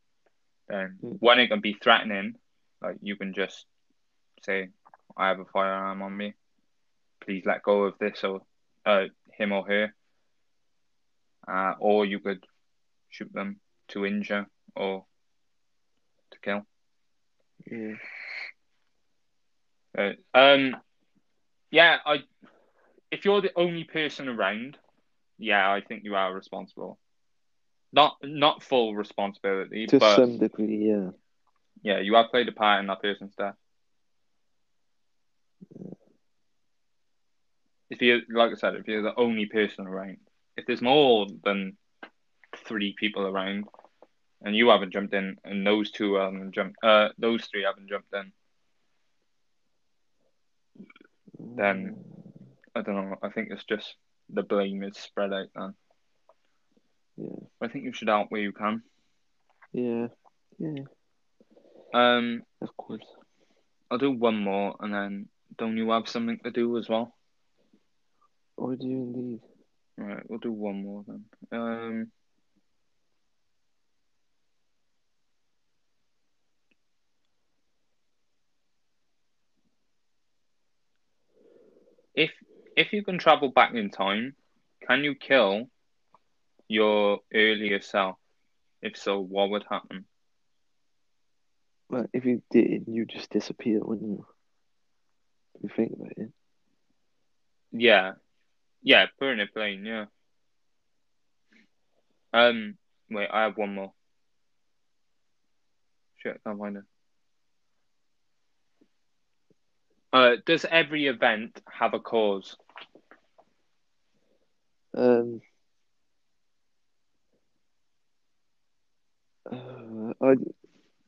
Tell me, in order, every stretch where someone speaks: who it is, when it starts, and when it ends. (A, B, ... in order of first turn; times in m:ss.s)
0:00.7-0:03.7 A
0:04.4-0:06.4 A
0:07.2-0:09.9 A
0:11.5-0:12.4 A
0:13.1-0:15.1 A
0:16.3-0:16.7 A
0:17.7-0:18.0 B
0:19.9-0:20.8 A
0:21.7-0:22.3 A
0:23.1-0:24.8 A
0:25.4-0:27.0 A
0:27.9-0:30.2 A
0:29.9-0:31.1 B
0:31.8-0:33.6 A
0:37.9-0:41.8 A
0:42.5-0:43.7 A
0:44.4-0:48.3 A
0:51.4-0:52.2 B
0:51.6-0:52.0 A
0:52.8-0:55.8 A
0:57.2-0:57.4 B
0:57.6-0:58.8 A
0:59.7-1:00.9 B
1:01.9-1:02.4 A
1:02.6-1:03.1 B
1:03.9-1:07.1 A
1:08.6-1:09.4 B
1:10.0-1:12.1 A
1:22.2-1:25.7 A
1:26.7-1:28.2 A
1:28.8-1:30.1 A
1:31.9-1:34.3 B
1:35.6-1:36.3 B
1:37.7-1:38.2 A
1:38.8-1:40.1 A
1:42.3-1:43.9 A
1:46.2-1:46.9 A
1:50.1-1:52.6 A
1:55.0-1:55.4 B
1:59.5-2:00.5 B